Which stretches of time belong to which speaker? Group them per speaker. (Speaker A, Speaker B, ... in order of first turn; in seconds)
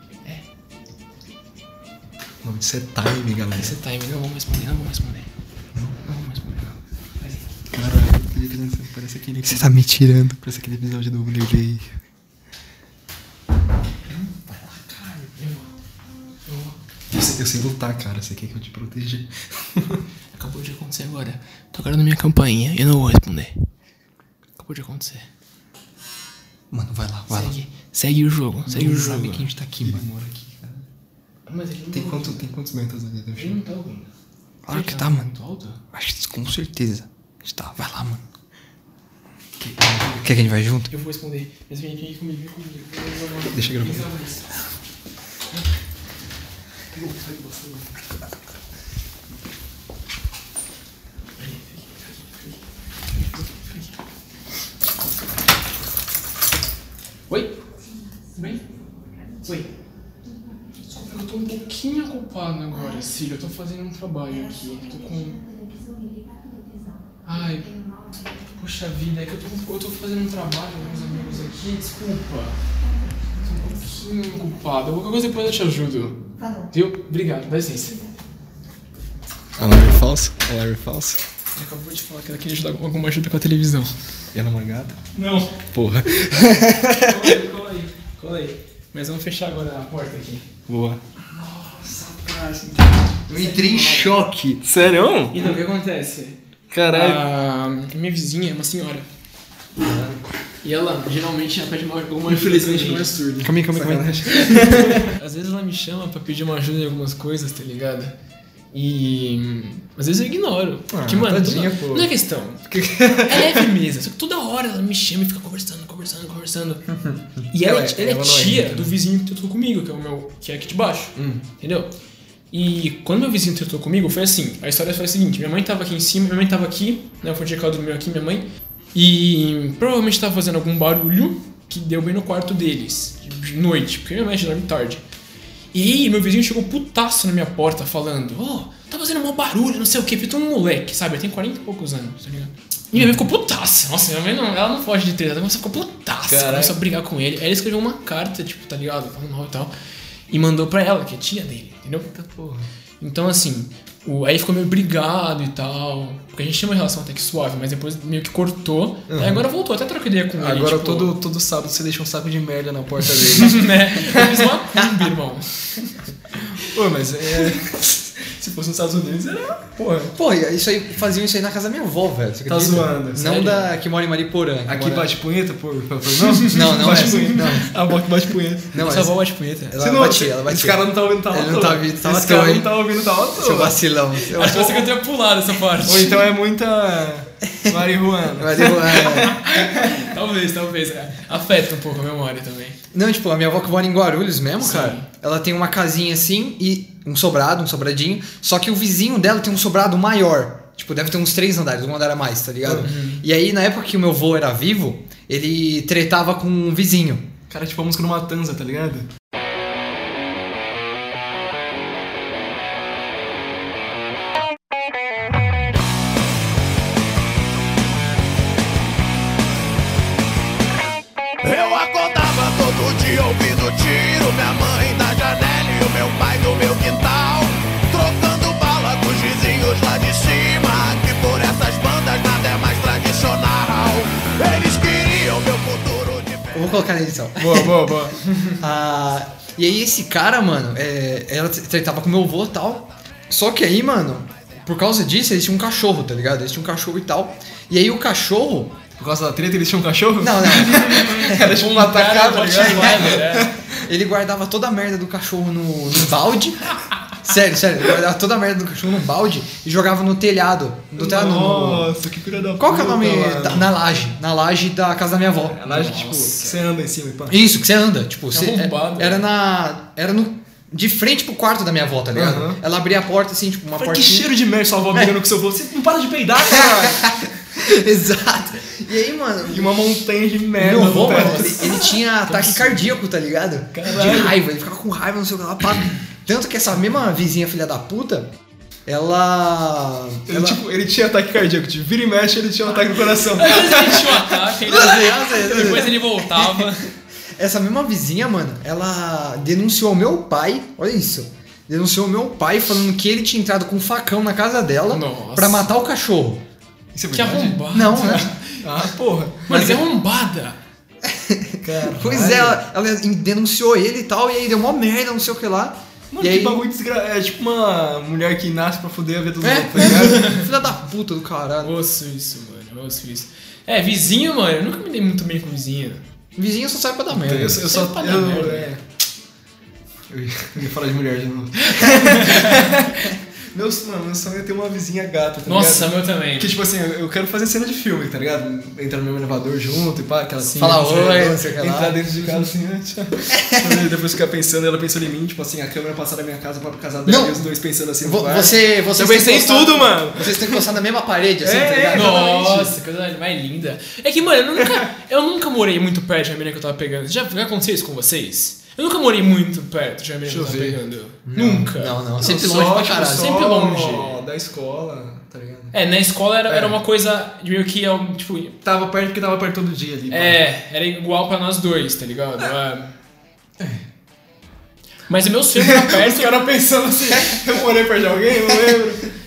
Speaker A: 2.4-3.8, 5.8-6.0, 7.7-9.7, 10.3-11.9, 17.1-20.0, 29.8-30.9, 31.9-33.6, 39.6-40.2, 43.5-44.1, 79.6-81.2, 84.3-85.0, 85.7-87.2, 90.7-91.0, 94.6-95.5, 96.7-97.2, 102.3-105.1, 110.9-112.1, 112.7-113.7, 117.6-118.9, 121.2-121.4, 146.3-146.8, 152.1-152.6, 159.1-159.4, 160.4-164.4, 166.7-170.1, 172.5-173.6, 174.7-178.7, 179.8-183.8, 185.8-189.9, 202.7-203.0, 207.5-209.1, 249.0-253.7, 260.9-263.7, 265.5-267.4, 272.1-272.6, 273.8-277.1, 279.5-281.9, 283.9-284.3, 290.3-294.5, 306.9-307.7, 308.6-309.7, 311.6-312.6, 316.1-320.4, 327.1-328.8, 330.1-350.6, 351.4-352.7, 360.3-360.8, 362.2-365.8, 366.5-366.8, 368.6-370.4, 375.6-379.1
Speaker B: 3.5-5.3, 6.0-7.4, 14.9-15.7, 16.5-16.8, 20.4-23.6, 24.6-25.3, 27.3-29.4, 31.5-32.5, 33.4-34.1, 34.7-35.8, 40.9-44.5, 46.9-47.9, 51.4-52.6, 53.2-53.9, 57.3-57.5, 58.4-58.6, 59.4-59.7, 60.9-65.4, 67.2-67.7, 68.5-72.5, 73.4-78.0, 81.6-83.9, 85.2-85.5, 87.0-90.5, 91.4-94.1, 95.3-99.1, 100.6-103.1, 104.2-108.2, 108.7-112.6, 113.1-116.9, 117.5-121.9, 122.5-135.0, 135.7-149.7, 150.3-152.1, 153.0-161.1, 163.3-165.5, 176.3-177.4, 178.8-179.8, 184.3-186.2, 189.3-192.8, 194.6-195.1, 202.8-203.2, 237.4-238.6, 250.9-253.5, 268.3-269.2, 280.8-282.8, 283.8-284.1, 293.3-296.9, 304.9-305.7, 307.1-308.9, 309.5-310.6, 319.4-320.4, 321.6-326.0, 327.6-328.7, 331.7-332.6, 335.4-336.6, 340.4-341.2, 351.9-362.0, 362.9-364.2, 365.7-368.5, 370.1-372.9, 375.1-376.6
Speaker C: 9.4-10.4, 26.7-27.5, 28.7-30.1, 34.6-35.4, 35.9-38.2, 40.1-40.9, 93.3-94.6, 103.4-104.2, 170.2-175.1, 176.5-177.7, 178.7-179.2, 179.7-184.9, 188.4-189.4, 192.9-207.3, 236.5-237.9, 238.6-248.8, 250.2-251.4, 253.8-256.6, 257.2-261.9, 262.6-266.2, 267.3-274.3, 276.4-279.8, 280.6-288.3, 288.9-290.6, 294.7-296.8, 297.4-306.4, 307.7-308.3, 309.5-309.8, 311.1-316.7, 319.7-321.7, 326.4-327.6, 340.6-342.0, 343.4-343.8, 347.1-347.5, 348.0-352.2, 361.3-363.4
Speaker D: 221.4-236.8